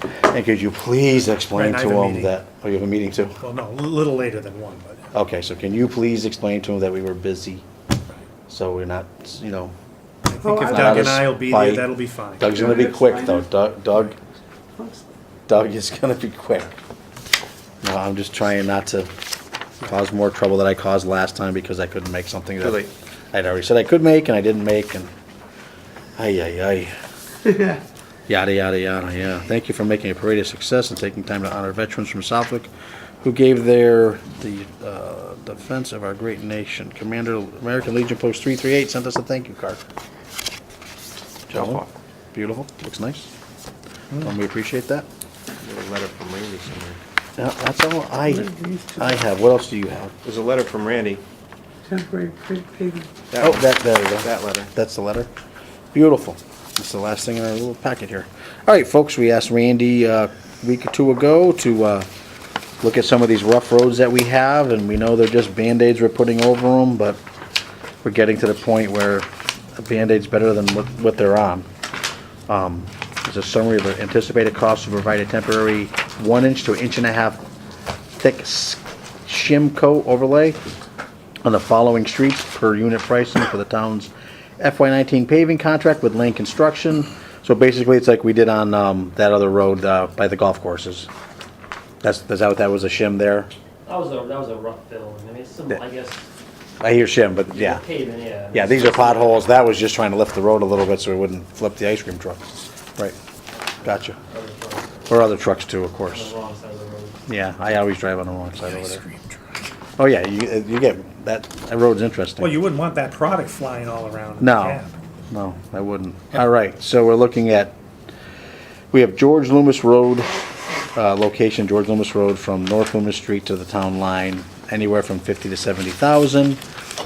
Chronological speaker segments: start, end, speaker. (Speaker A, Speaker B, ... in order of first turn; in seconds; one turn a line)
Speaker A: 0.3-3.4
Speaker B: 1.5-2.3
Speaker B: 3.4-5.1
Speaker A: 5.1-7.6
Speaker A: 8.5-9.7
Speaker B: 10.3-12.6
Speaker C: 10.4-10.8
Speaker A: 10.7-11.9
Speaker A: 12.4-14.2
Speaker C: 12.5-13.4
Speaker C: 14.8-15.1
Speaker A: 15.5-16.8
Speaker A: 17.8-19.1
Speaker A: 19.8-25.1
Speaker D: 22.6-22.9
Speaker A: 26.2-27.0
Speaker A: 28.3-39.8
Speaker A: 41.5-43.3
Speaker D: 41.5-41.9
Speaker A: 44.2-45.1
Speaker D: 45.6-47.0
Speaker A: 47.4-50.1
Speaker C: 48.3-49.1
Speaker D: 50.2-51.2
Speaker C: 51.9-53.2
Speaker D: 53.3-54.7
Speaker A: 53.4-55.3
Speaker A: 55.9-62.1
Speaker A: 62.8-67.2
Speaker A: 68.0-71.7
Speaker A: 72.5-77.4
Speaker A: 78.2-80.6
Speaker A: 81.5-91.1
Speaker A: 92.0-93.5
Speaker E: 93.9-96.3
Speaker A: 96.8-97.8
Speaker E: 97.5-99.5
Speaker A: 98.5-103.2
Speaker A: 103.8-104.2
Speaker E: 103.8-105.2
Speaker A: 105.1-106.3
Speaker E: 106.0-107.2
Speaker A: 107.3-109.0
Speaker B: 108.6-109.7
Speaker A: 110.0-112.6
Speaker B: 112.4-115.0
Speaker A: 114.4-117.8
Speaker A: 118.9-126.6